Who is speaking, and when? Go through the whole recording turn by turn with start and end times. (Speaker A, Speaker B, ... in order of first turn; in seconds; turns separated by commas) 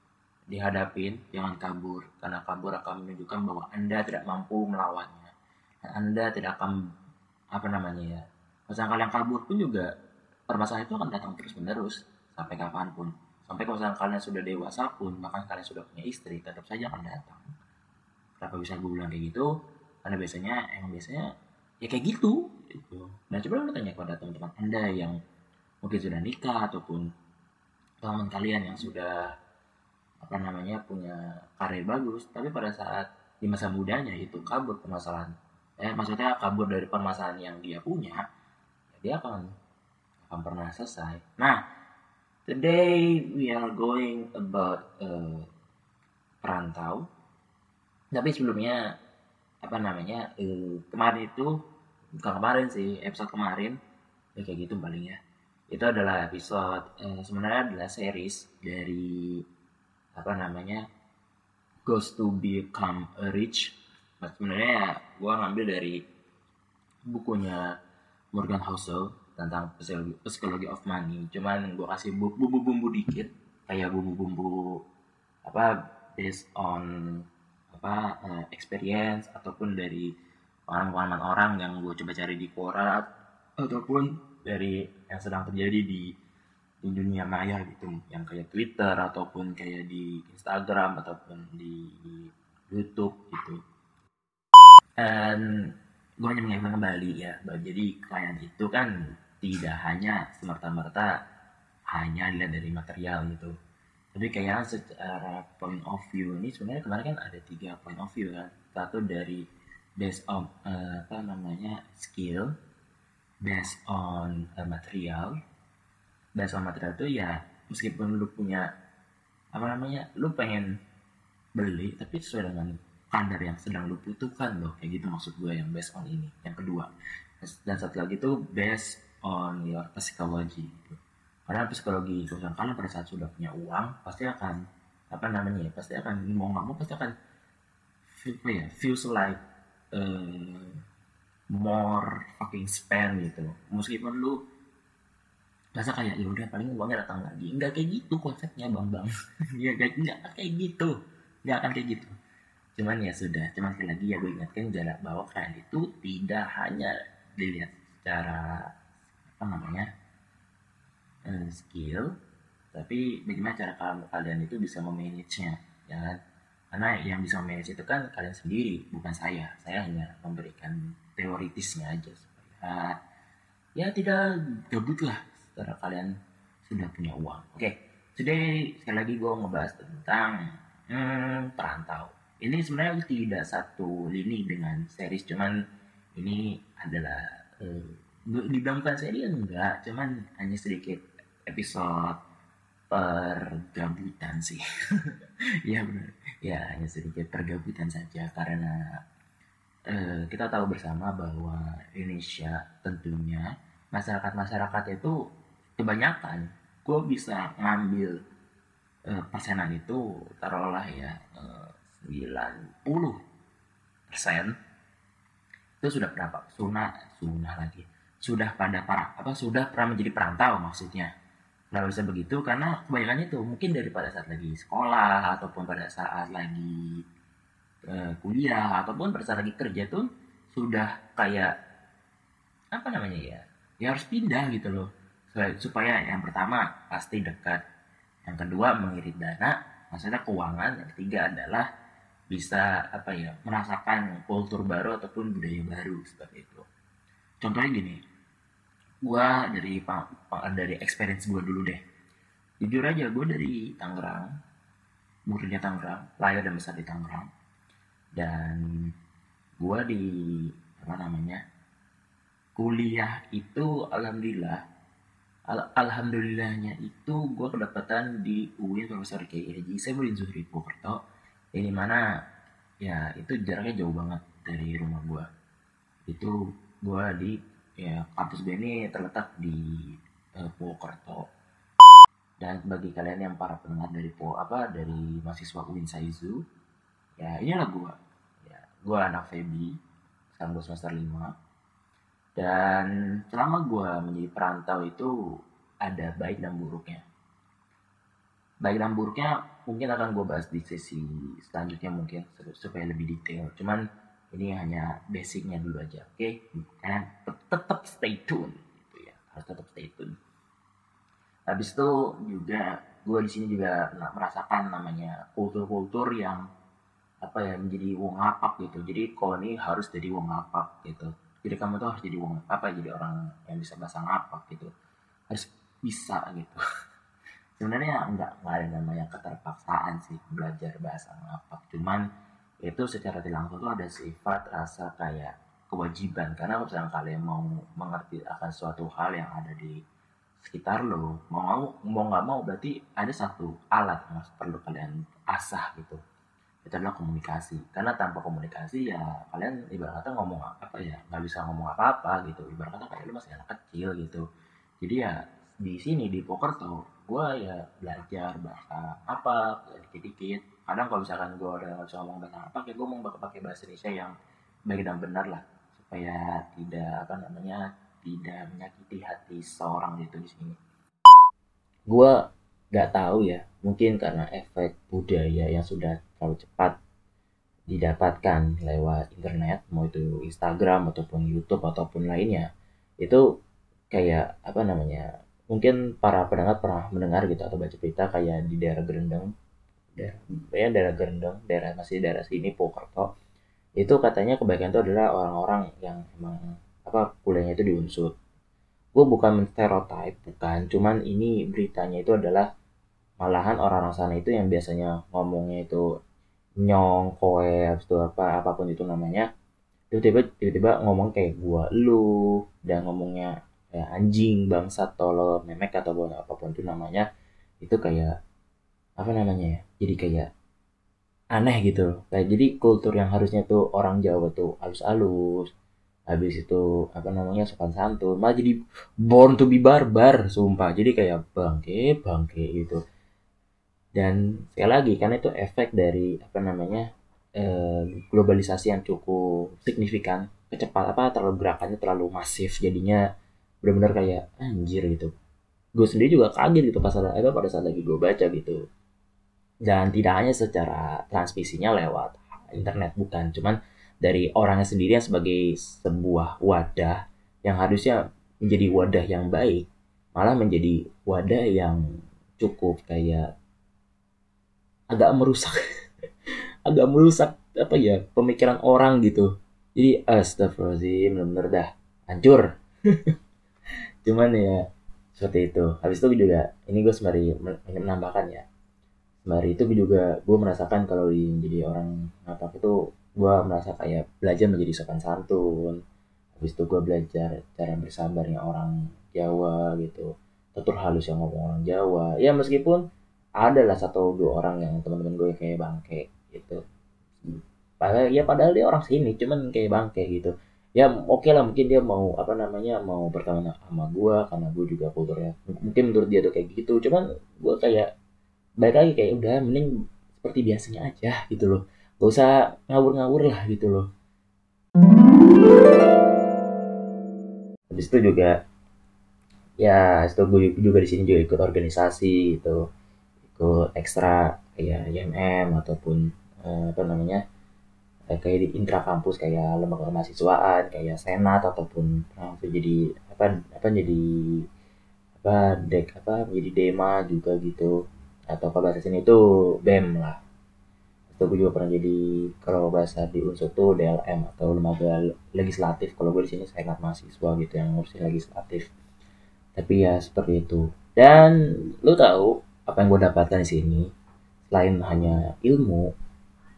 Speaker A: 0.5-5.3, Speaker A: 5.8-6.8, Speaker A: 7.5-9.9, Speaker A: 10.5-17.5, Speaker A: 18.4-19.5, Speaker A: 20.0-21.3, Speaker A: 21.8-25.2, Speaker A: 25.8-27.1, Speaker A: 28.0-29.3, Speaker A: 30.2-38.2, Speaker A: 38.9-39.5, Speaker A: 40.2-41.6, Speaker A: 42.5-45.5, Speaker A: 46.4-47.0, Speaker A: 48.1-48.8, Speaker A: 49.6-51.6, Speaker A: 52.2-53.8, Speaker A: 54.3-55.2, Speaker A: 55.7-59.4, Speaker A: 60.1-60.8, Speaker A: 61.8-66.0, Speaker A: 67.1-67.8, Speaker A: 68.3-74.8, Speaker A: 75.4-80.1, Speaker A: 80.7-83.0, Speaker A: 83.6-86.1, Speaker A: 86.8-93.6, Speaker A: 95.0-101.1, Speaker A: 101.9-103.5, Speaker A: 104.1-109.4, Speaker A: 110.0-112.5, Speaker A: 113.4-115.3, Speaker A: 116.3-118.7, Speaker A: 119.5-120.7, Speaker A: 121.5-126.9, Speaker A: 127.4-131.0, Speaker A: 131.5-137.1, Speaker A: 138.2-139.4, Speaker A: 139.9-140.8, Speaker A: 141.5-144.4, Speaker A: 145.7-152.1, Speaker A: 152.8-158.7, Speaker A: 159.4-159.9, Speaker A: 161.2-162.1, Speaker A: 162.7-166.2, Speaker A: 166.7-173.0, Speaker A: 173.8-176.1, Speaker A: 176.7-185.5, Speaker A: 186.2-192.2, Speaker A: 192.9-198.8, Speaker A: 199.9-205.2, Speaker A: 205.8-208.2, Speaker A: 209.1-213.2, Speaker A: 214.1-214.5, Speaker A: 215.8-221.1, Speaker A: 221.7-227.0, Speaker A: 227.9-231.5, Speaker A: 232.7-237.6, Speaker A: 238.2-241.7, Speaker A: 242.3-246.7, Speaker A: 247.4-248.0, Speaker A: 249.0-251.8, Speaker A: 252.6-254.3, Speaker A: 255.3-257.3, Speaker A: 258.1-258.9, Speaker A: 259.6-261.4, Speaker A: 262.6-264.6, Speaker A: 265.5-271.0, Speaker A: 271.5-272.0, Speaker A: 272.8-275.3, Speaker A: 276.1-281.2, Speaker A: 282.4-286.4, Speaker A: 287.2-289.8, Speaker A: 290.3-291.3, Speaker A: 292.4-295.1, Speaker A: 295.8-297.0, Speaker A: 298.6-303.8, Speaker A: 304.3-310.1, Speaker A: 311.5-316.4, Speaker A: 317.2-324.7, Speaker A: 325.3-326.6, Speaker A: 327.6-332.0, Speaker A: 332.6-339.8, Speaker A: 340.4-346.0, Speaker A: 346.6-354.2, Speaker A: 354.8-364.1, Speaker A: 364.7-370.6, Speaker A: 371.9-372.1, Speaker A: 372.7-376.8, Speaker A: 377.7-382.4, Speaker A: 383.9-389.3, Speaker A: 390.0-393.1, Speaker A: 393.8-398.1, Speaker A: 398.9-402.5, Speaker A: 403.2-405.8, Speaker A: 406.6-409.3, Speaker A: 409.9-417.1, Speaker A: 417.6-418.1, Speaker A: 419.0-420.3, Speaker A: 421.3-425.5, Speaker A: 426.1-432.8, Speaker A: 433.9-436.9, Speaker A: 437.4-443.0, Speaker A: 443.6-445.1, Speaker A: 445.8-448.6, Speaker A: 449.6-461.8, Speaker A: 462.4-463.3, Speaker A: 464.9-465.6, Speaker A: 466.7-473.1, Speaker A: 474.0-474.6, Speaker A: 475.1-478.4, Speaker A: 479.2-485.8, Speaker A: 486.4-492.8, Speaker A: 493.4-496.6, Speaker A: 497.2-507.9, Speaker A: 508.6-513.9, Speaker A: 517.7-518.3, Speaker A: 519.6-522.6, Speaker A: 523.3-527.2, Speaker A: 528.1-534.4, Speaker A: 535.2-537.7, Speaker A: 538.3-540.2, Speaker A: 541.1-548.7, Speaker A: 549.5-553.9, Speaker A: 554.5-555.9